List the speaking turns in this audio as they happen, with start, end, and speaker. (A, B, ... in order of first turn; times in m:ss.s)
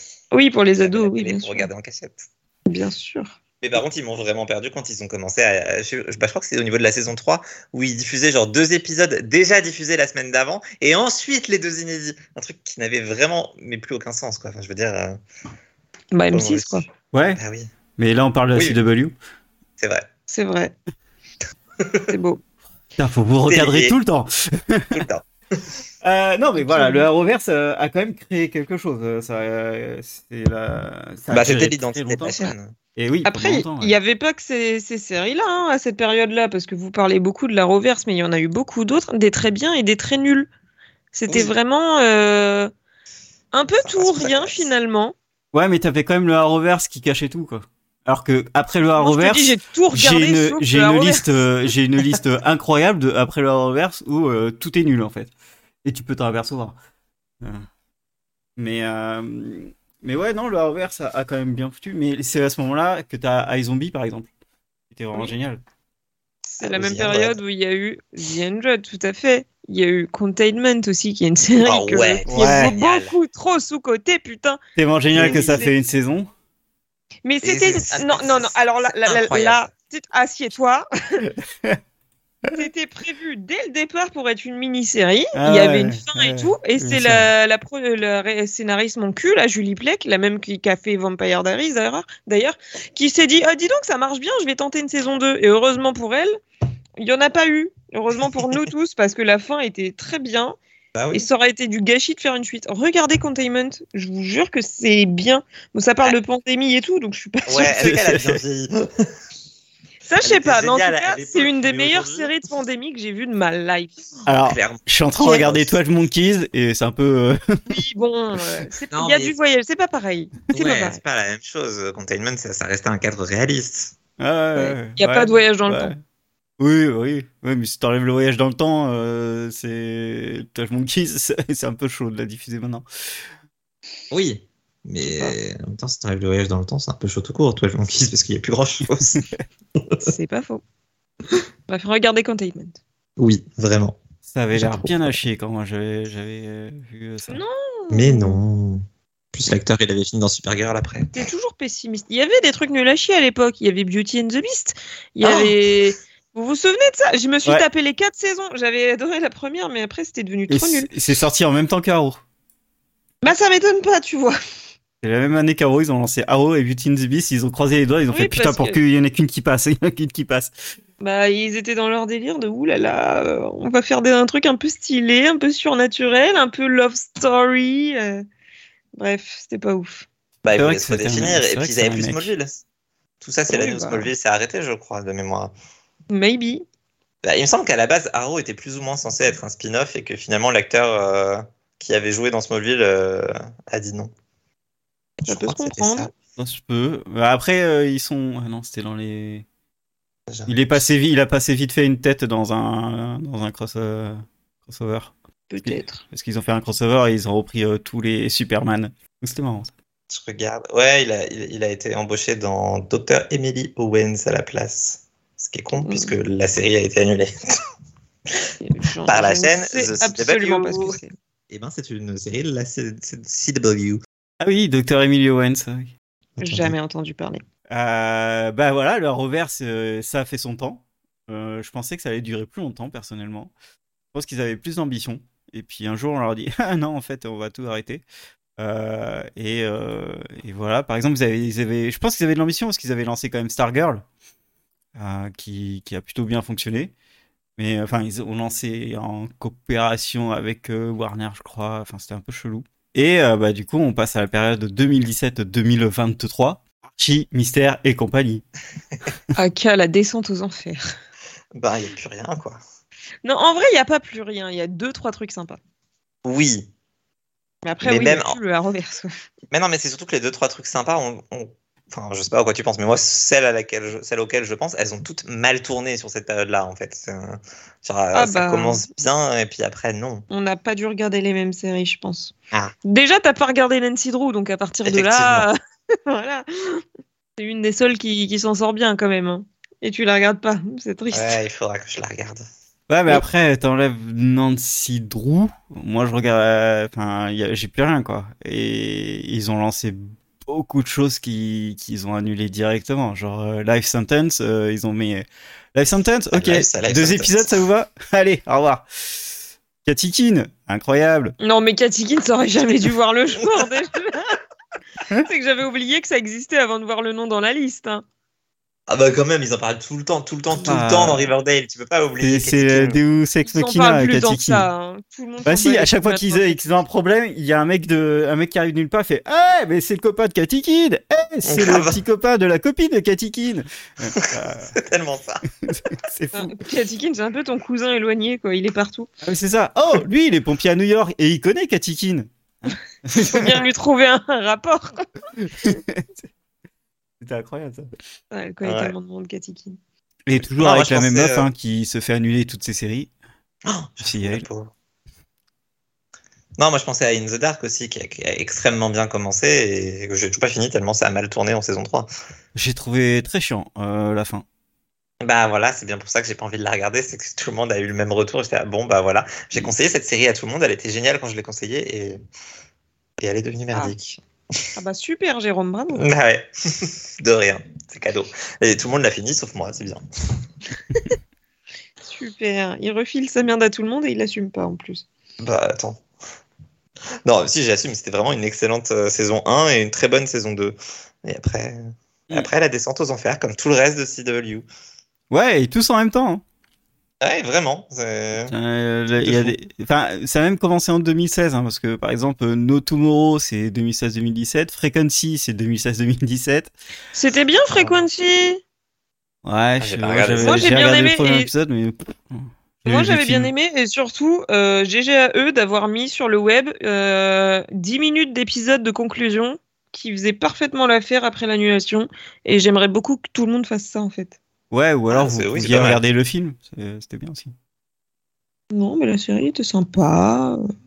0:00.3-0:01.7 A
0:00.8-0:02.2 B
0:02.7-0:03.3 A
0:03.6-0:15.2 B
0:16.1-0:16.8 A
0:16.3-0:16.8 B
0:17.1-0:17.4 C
0:17.4-0:17.7 B
0:18.0-0:19.1 C
0:19.8-0:20.1 B
0:20.3-0:20.7 A
0:21.8-0:22.1 B
0:22.1-0:22.4 A
0:23.0-0:25.0 C
0:23.4-0:24.0 B
0:24.9-0:25.6 B
0:26.0-0:34.0 C
0:26.6-0:27.1 A
0:31.3-0:32.7 B
0:33.3-0:40.5 A
0:41.1-0:42.7 A
0:41.3-0:41.5 B
0:43.5-0:45.1 A
0:43.8-0:44.7 B
0:45.5-0:55.3 C
0:49.0-0:51.4 A
0:55.8-0:56.8 C
0:57.4-0:57.7 C
0:58.6-1:04.3 C
1:04.9-1:05.6 C
1:06.6-1:14.6 A
1:06.6-1:07.4 B
1:11.6-1:13.1 B
1:12.3-1:12.7 C
1:14.8-1:16.3 C
1:15.1-1:15.7 B
1:15.2-1:15.7 A
1:17.2-1:21.2 A
1:17.4-1:19.7 B
1:22.5-1:36.3 A
1:25.3-1:27.3 C
1:37.0-1:40.6 A
1:40.9-1:41.2 B
1:41.1-1:47.8 A
1:47.5-1:48.7 B
1:47.8-1:48.4 C
1:50.0-1:54.1 A
1:50.2-1:52.3 B
1:54.3-1:57.7 C
1:54.4-1:55.8 B
1:55.2-1:55.4 A
1:57.7-2:01.0 A
1:58.9-1:59.3 B
2:00.5-2:03.9 B
2:04.2-2:06.0 C
2:04.6-2:05.9 A
2:06.6-2:12.8 C
2:14.1-2:19.2 B
2:15.0-2:15.3 A
2:19.1-2:19.4 C
2:19.8-2:20.1 B
2:20.0-2:20.6 A
2:21.7-2:22.8 A
2:23.2-2:24.0 B
2:24.3-2:27.4 C
2:24.5-2:25.2 B
2:27.3-2:28.4 A
2:27.9-2:28.8 B
2:29.3-2:31.2 B
2:31.1-2:40.9 A
2:35.2-2:35.5 B
2:40.5-2:42.2 C
2:43.2-2:44.4 A
2:45.0-2:50.5 C
2:48.1-2:48.8 A
2:51.0-2:58.2 A
2:59.0-3:00.1 A
3:00.4-3:02.6 B
3:00.5-3:02.3 C
3:03.2-3:05.5 B
3:03.5-3:04.1 A
3:06.1-3:06.6 A
3:07.2-3:14.1 B
3:15.2-3:16.1 B
3:15.2-3:16.1 A
3:16.4-3:19.4 C
3:20.3-3:20.8 B
3:20.4-3:29.7 C
3:25.5-3:26.0 A
3:30.1-3:37.3 B
3:35.8-3:36.1 A
3:38.6-3:41.1 A
3:39.1-3:44.0 B
3:44.4-3:45.9 C
3:46.4-3:46.8 B
3:46.4-3:47.4 A
3:47.7-3:53.5 C
3:54.1-3:58.0 C
3:58.6-4:04.0 C
4:05.0-4:06.9 C
4:07.6-4:18.4 C
4:19.3-4:20.8 A
4:21.6-4:22.6 B
4:23.2-4:25.6 A
4:26.2-4:26.7 B
4:27.6-4:29.1 A
4:27.8-4:28.4 B
4:29.5-4:40.2 B
4:38.1-4:38.8 A
4:40.3-4:42.3 A
4:42.8-4:45.5 A
4:44.8-4:45.5 B
4:46.0-4:46.8 A
4:47.4-4:51.4 A
4:51.1-4:52.4 B
4:52.9-5:08.8 C
5:06.3-5:07.5 B
5:09.8-5:11.3 C
5:11.4-5:14.3 A
5:13.4-5:13.7 B
5:15.2-5:18.0 A
5:18.9-5:23.0 B
5:20.6-5:21.3 C
5:22.2-5:24.7 C
5:23.4-5:26.6 A
5:25.4-5:34.7 C
5:31.4-5:32.0 B
5:34.2-5:35.4 B
5:35.6-5:36.6 C
5:36.3-5:39.1 A
5:39.2-5:43.6 C
5:43.1-5:45.0 A
5:45.4-5:46.2 C
5:47.2-5:47.9 C
5:48.3-5:49.8 A
5:48.6-5:48.9 B
5:50.2-5:53.1 C
5:50.4-5:51.5 B
5:53.6-5:54.7 B
5:54.0-5:54.5 C
5:56.6-6:02.1 B
6:02.5-6:04.4 C
6:05.2-6:12.2 B
6:13.2-6:14.2 B
6:14.8-6:16.1 A
6:15.9-6:20.0 B
6:22.0-6:25.0 A
6:25.4-6:26.0 B
6:27.2-6:34.6 B
6:35.3-6:36.4 C
6:37.2-6:38.5 B
6:38.5-6:46.7 C
6:39.2-6:39.5 B
6:47.1-6:48.6 A
6:47.7-6:48.0 B
6:49.4-6:53.5 C
6:49.8-6:50.7 B
6:50.4-6:51.5 A
6:52.8-7:04.4 A
7:04.7-7:07.5 C
7:05.1-7:06.0 B
7:08.7-7:10.6 A